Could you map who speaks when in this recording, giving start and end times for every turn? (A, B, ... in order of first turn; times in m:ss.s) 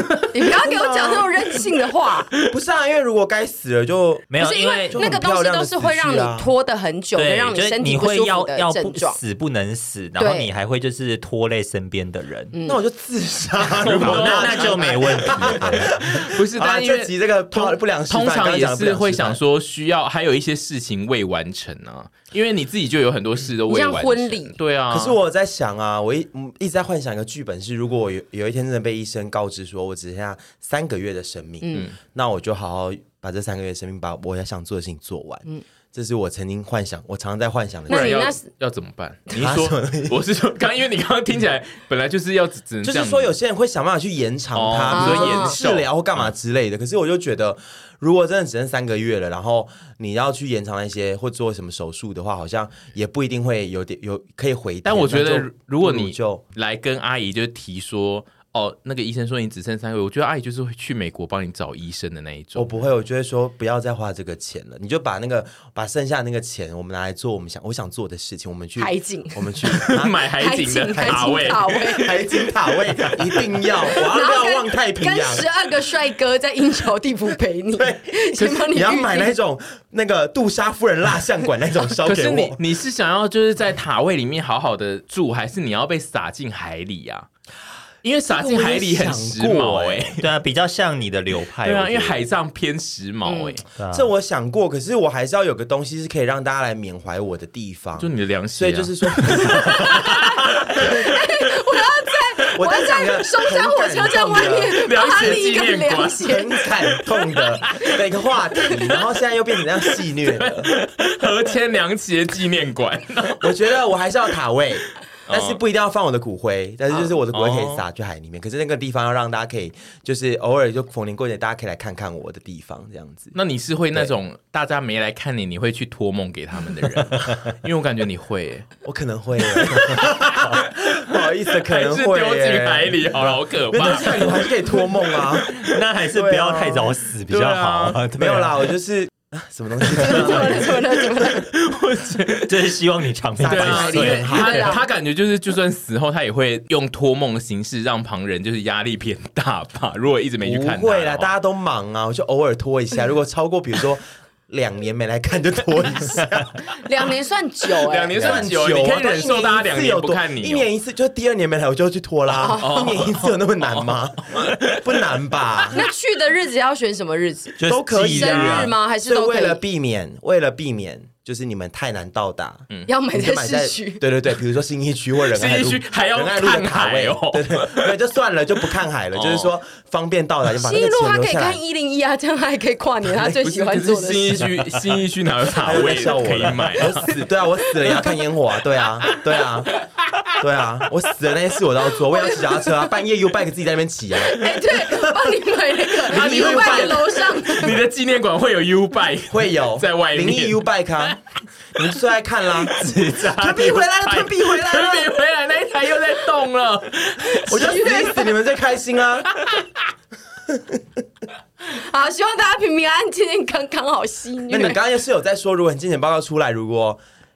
0:00.3-0:02.3 A
0:00.5-0:01.3 B
0:02.4-0:04.4 B
0:04.3-0:05.0 C
0:04.4-0:09.2 A
0:04.9-0:06.5 B
0:07.2-0:12.5 C
0:10.2-0:10.5 A
0:12.5-0:12.8 A
0:12.6-0:19.4 B
0:13.8-0:25.2 D
0:13.8-0:16.1 C
0:23.7-0:24.6 A
0:24.9-0:38.3 B
0:31.6-0:31.9 A
0:37.9-0:38.5 A
0:37.9-0:43.3 D
0:39.4-0:40.2 B
0:42.8-0:56.4 B
0:44.5-0:46.3 D
0:44.9-0:45.6 A
0:54.8-1:02.7 D
1:02.6-1:10.2 B
1:08.8-1:09.6 A
1:09.7-1:12.3 D
1:10.3-1:12.2 A
1:10.9-1:15.5 B
1:13.9-1:19.3 A
1:17.8-1:22.6 B
1:22.0-1:27.3 D
1:28.0-1:30.2 D
1:28.3-1:30.1 B
1:30.2-1:32.2 C
1:31.6-1:33.6 D
1:33.2-1:33.6 A
1:33.8-1:34.1 C
1:33.9-1:41.1 B
1:38.0-1:41.1 D
1:39.4-1:46.6 A
1:42.5-1:50.7 B
1:44.4-1:46.3 D
1:46.8-1:47.9 D
1:48.7-1:49.0 D
1:50.0-1:53.7 D
1:53.4-2:03.3 B
1:55.3-1:55.6 D
1:56.9-1:57.8 D
2:03.3-2:08.7 D
2:08.8-2:15.6 B
2:09.4-2:15.6 D
2:15.5-2:18.7 C
2:16.1-2:16.9 B
2:17.3-2:18.0 D
2:18.1-2:20.8 B
2:19.9-2:21.5 A
2:21.2-2:22.6 D
2:22.5-2:24.4 C
2:23.4-2:24.7 B
2:23.4-2:31.3 D
2:23.9-2:24.8 A
2:30.4-2:36.6 B
2:36.7-2:38.5 A
2:37.8-2:40.7 D
2:38.1-2:45.8 B
2:42.3-2:43.1 A
2:42.4-2:44.9 D
2:45.7-2:49.6 A
2:47.6-2:48.7 C
2:47.6-3:01.6 B
2:52.9-2:54.0 A
2:55.3-2:57.9 D
2:59.1-2:59.5 D
3:00.6-3:04.5 A
3:03.1-3:07.1 D
3:05.5-3:09.8 B
3:09.1-3:10.3 D
3:10.4-3:15.3 B
3:14.2-3:17.8 A
3:16.0-3:17.1 B
3:16.1-3:21.2 D
3:19.3-3:21.2 B
3:21.8-3:25.1 B
3:22.5-3:28.0 D
3:27.2-3:28.3 A
3:27.5-3:29.4 B
3:29.3-3:29.7 D
3:30.5-3:30.8 B
3:31.6-3:34.8 A
3:34.5-3:37.0 B